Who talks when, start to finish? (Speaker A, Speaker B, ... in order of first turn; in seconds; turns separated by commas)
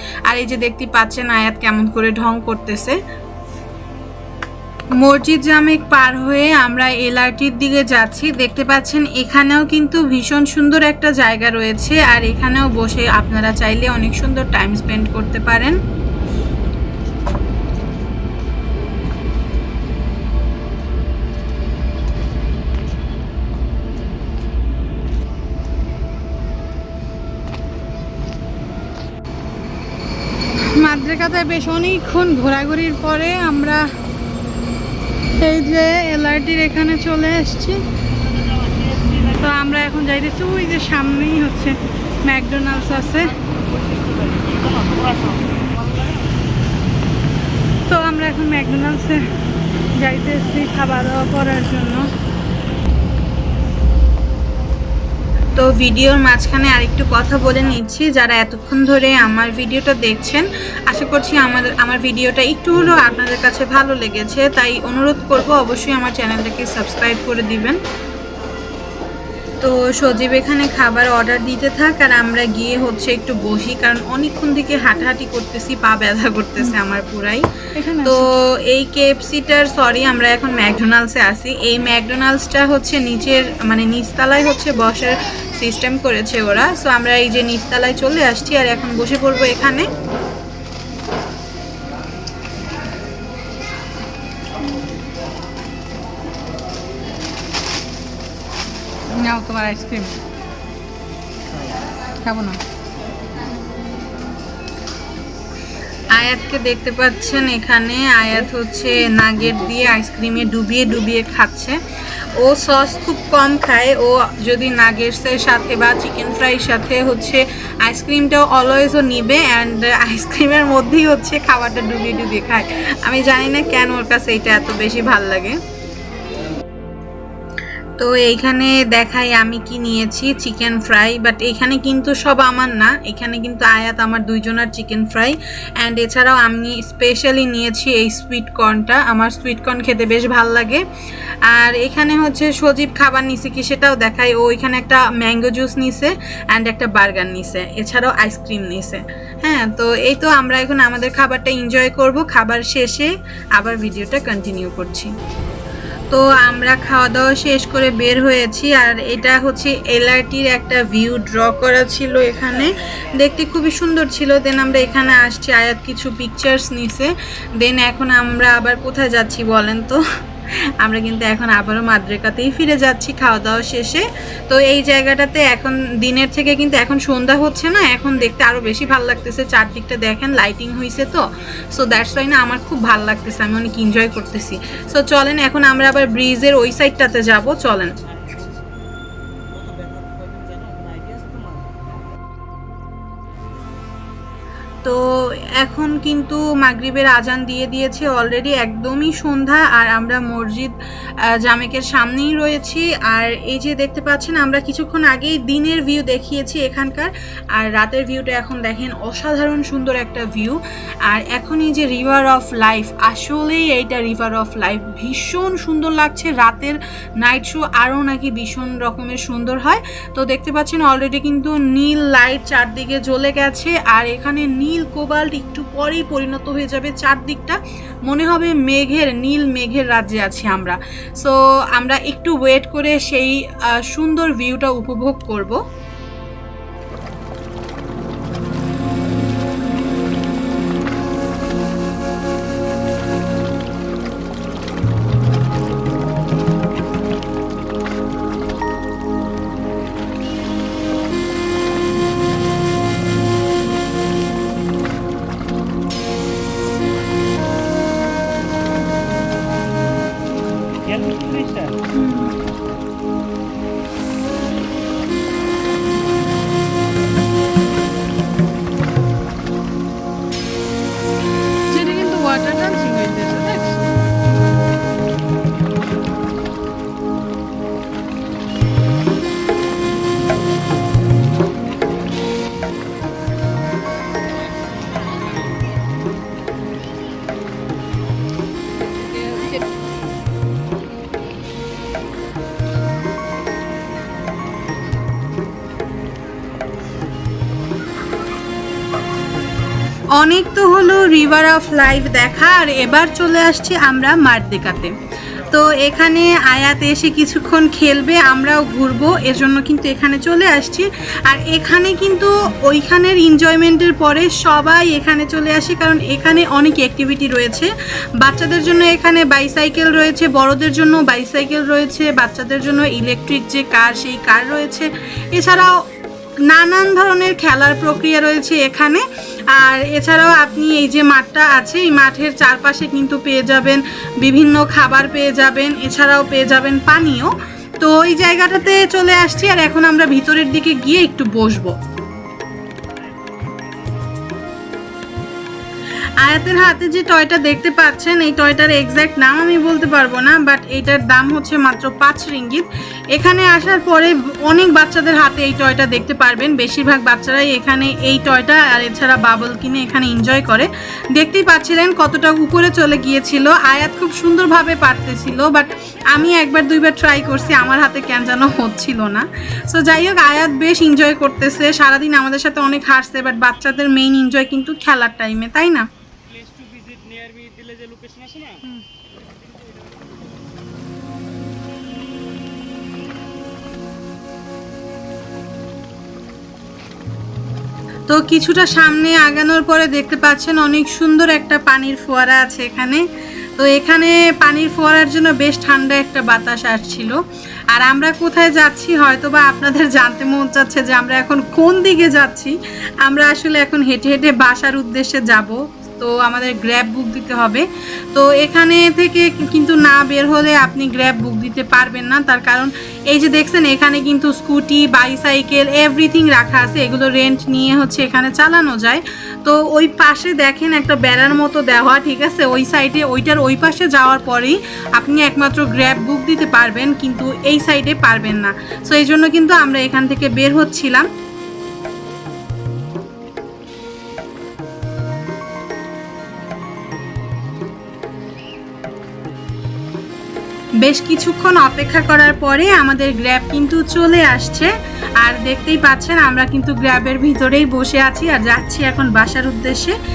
Speaker A: 0.3-3.0, Speaker A: 5.0-15.8, Speaker B: 30.8-33.8, Speaker B: 35.4-37.8, Speaker C: 38.3-39.4, Speaker B: 39.4-43.3, Speaker C: 42.6-46.3, Speaker B: 47.9-49.2, Speaker B: 50.0-52.1, Speaker A: 55.5-67.8, Speaker A: 69.6-77.5, Speaker B: 77.7-78.3, Speaker A: 78.0-89.9, Speaker B: 99.2-100.1, Speaker B: 102.2-102.6, Speaker A: 106.1-111.8, Speaker A: 112.3-125.6, Speaker A: 128.0-140.8, Speaker A: 141.5-155.1, Speaker A: 156.1-170.0, Speaker C: 162.7-163.0, Speaker A: 170.8-187.9, Speaker C: 178.2-179.3, Speaker C: 187.4-188.6, Speaker C: 189.5-191.9, Speaker A: 194.8-200.7, Speaker A: 201.3-235.6, Speaker C: 260.8-261.8, Speaker B: 261.9-262.3, Speaker B: 271.7-273.9, Speaker A: 300.2-304.9, Speaker A: 305.5-325.8, Speaker A: 326.5-341.8, Speaker A: 346.2-375.9, Speaker C: 376.3-380.2, Speaker A: 388.1-393.1, Speaker A: 393.6-397.2, Speaker A: 397.7-431.1, Speaker A: 440.8-444.7, Speaker A: 445.2-450.0